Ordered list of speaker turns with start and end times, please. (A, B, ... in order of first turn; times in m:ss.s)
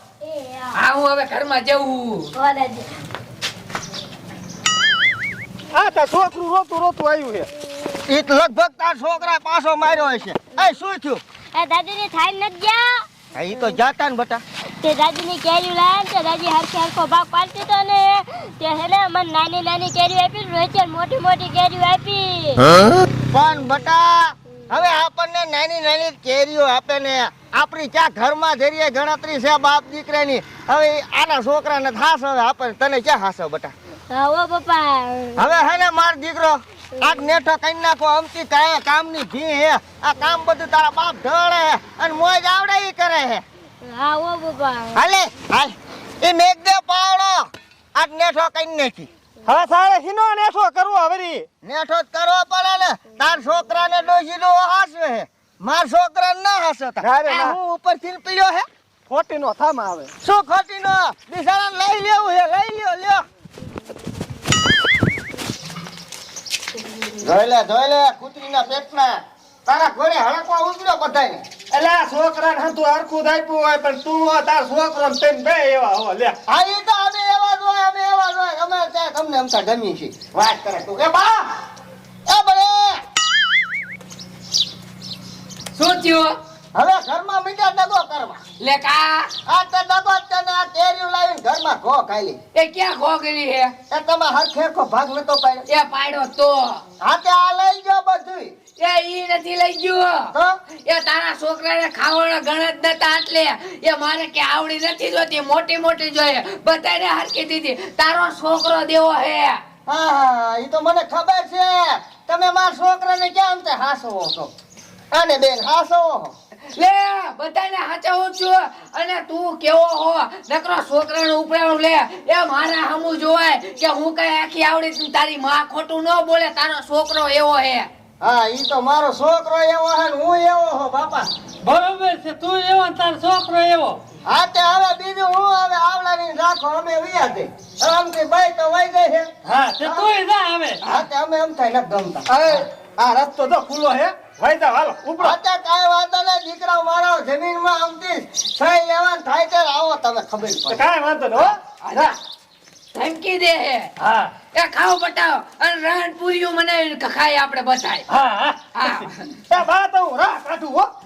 0:00.2-0:00.7 A
0:00.7-0:02.3 B
0:02.3-0:02.9 A
0:05.7-0:07.5 C
0:08.0-0:11.2 D
0:11.5-0:13.8 A
0:13.3-0:14.4 D
0:14.8-0:22.8 A
0:23.3-0:33.7 D
0:34.1-0:35.7 A
0:35.4-0:43.4 D
0:43.8-0:45.0 A
0:44.9-0:49.1 D
0:49.4-0:51.5 C
0:51.6-0:58.6 D
0:57.0-0:57.6 C
0:59.1-1:00.1 C
1:00.2-1:03.2 D
1:07.2-1:11.4 D
1:11.7-1:16.4 C
1:16.5-1:21.5 D
1:22.3-1:23.0 D
1:25.7-1:26.3 B
1:26.7-1:28.4 D
1:28.6-1:29.3 B
1:29.4-1:32.4 D
1:32.5-1:33.7 B
1:33.9-1:35.6 D
1:35.7-1:36.8 B
1:37.0-1:38.5 D
1:38.8-1:40.3 B
1:40.8-1:49.6 B
1:49.9-1:54.5 D
1:55.1-1:56.3 D
1:56.7-2:07.9 B
2:08.2-2:11.3 D
2:11.6-2:14.0 E
2:14.2-2:19.3 D
2:19.4-2:20.8 E
2:19.8-2:20.1 D
2:20.8-2:22.3 D
2:22.3-2:25.3 C
2:25.2-2:30.8 D
2:30.7-2:32.1 C
2:31.4-2:32.1 B
2:32.9-2:33.9 B
2:34.0-2:34.3 E
2:34.5-2:38.0 B
2:38.1-2:39.0 E
2:38.7-2:39.3 B
2:39.5-2:40.9 C